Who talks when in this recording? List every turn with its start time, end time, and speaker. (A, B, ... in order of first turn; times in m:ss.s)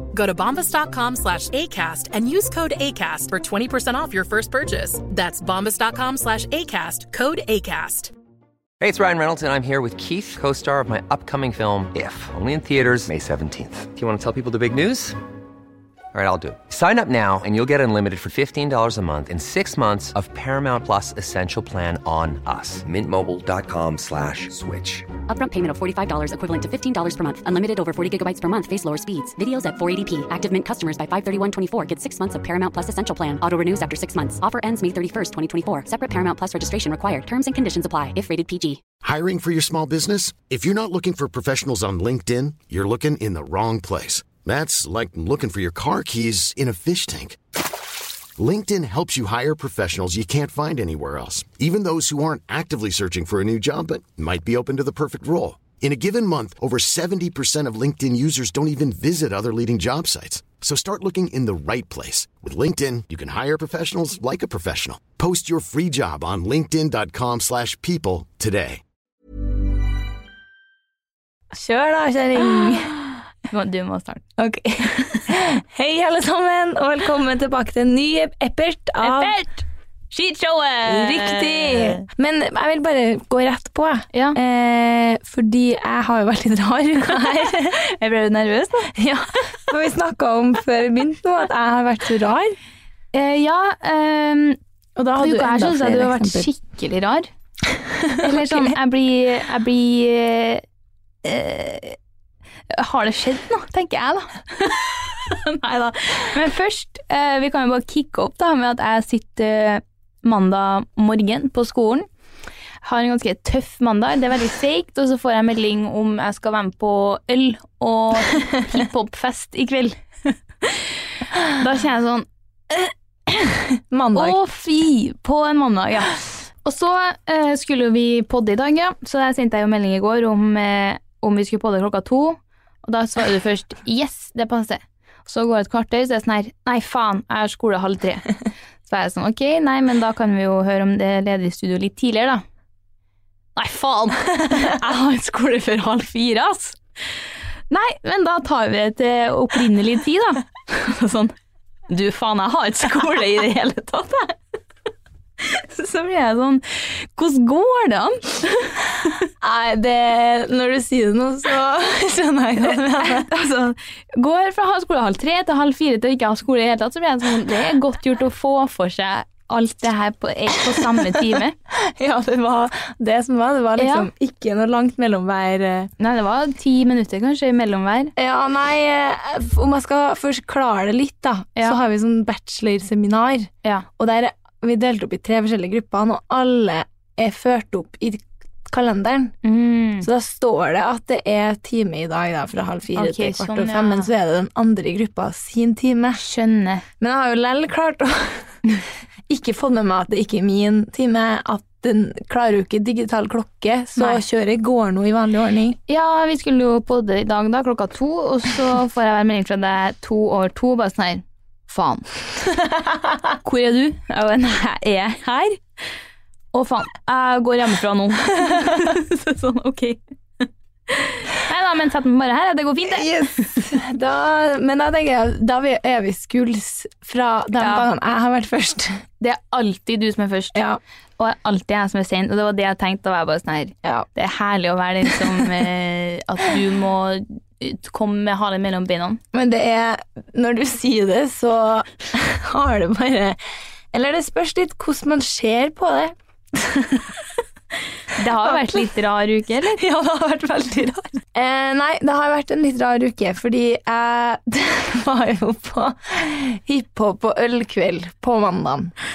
0:00.1-0:08.1 A
0:08.8-0:15.2 B
0:16.1-0:25.1 B
0:25.2-0:38.8 C
0:39.0-0:47.4 D
0:48.4-1:08.8 D
1:11.5-1:13.1 E
1:13.5-1:14.2 F
1:14.4-1:19.4 E
1:19.0-1:22.0 F
1:20.8-1:27.8 E
1:27.7-1:28.9 F
1:28.9-1:32.6 E
1:33.1-1:34.6 F
1:35.0-1:36.5 E
1:35.2-1:37.3 F
1:38.0-1:38.8 E
1:38.2-1:40.6 F
1:41.2-1:42.0 F
1:42.7-1:52.1 F
1:52.8-2:00.8 F
2:01.4-2:03.5 F
2:03.9-2:04.4 E
2:04.1-2:18.3 F
2:18.8-2:22.4 F
2:23.6-2:26.8 F
2:27.7-2:31.3 F
2:31.9-2:34.4 F
2:35.4-2:39.2 F
2:39.4-2:43.3 E
2:43.0-2:51.5 F
2:51.7-2:55.9 E
2:53.8-2:54.1 F
2:56.0-2:58.1 F
2:58.2-3:09.3 E
3:09.4-3:10.1 F
3:10.0-3:16.2 E
3:13.0-3:14.1 F
3:16.2-3:16.8 F
3:17.0-3:18.5 E
3:19.3-3:25.8 E
3:24.0-3:24.2 F
3:25.9-3:32.0 F
3:33.4-3:35.6 F
3:36.5-3:43.7 F
3:42.8-3:49.0 E
3:47.6-3:47.9 F
3:49.2-3:50.6 F
3:50.5-3:50.8 E
3:51.2-3:59.2 F
3:59.3-4:03.4 E
4:03.9-4:07.2 E
4:08.1-4:09.8 F
4:08.4-4:08.9 E
4:09.8-4:18.9 E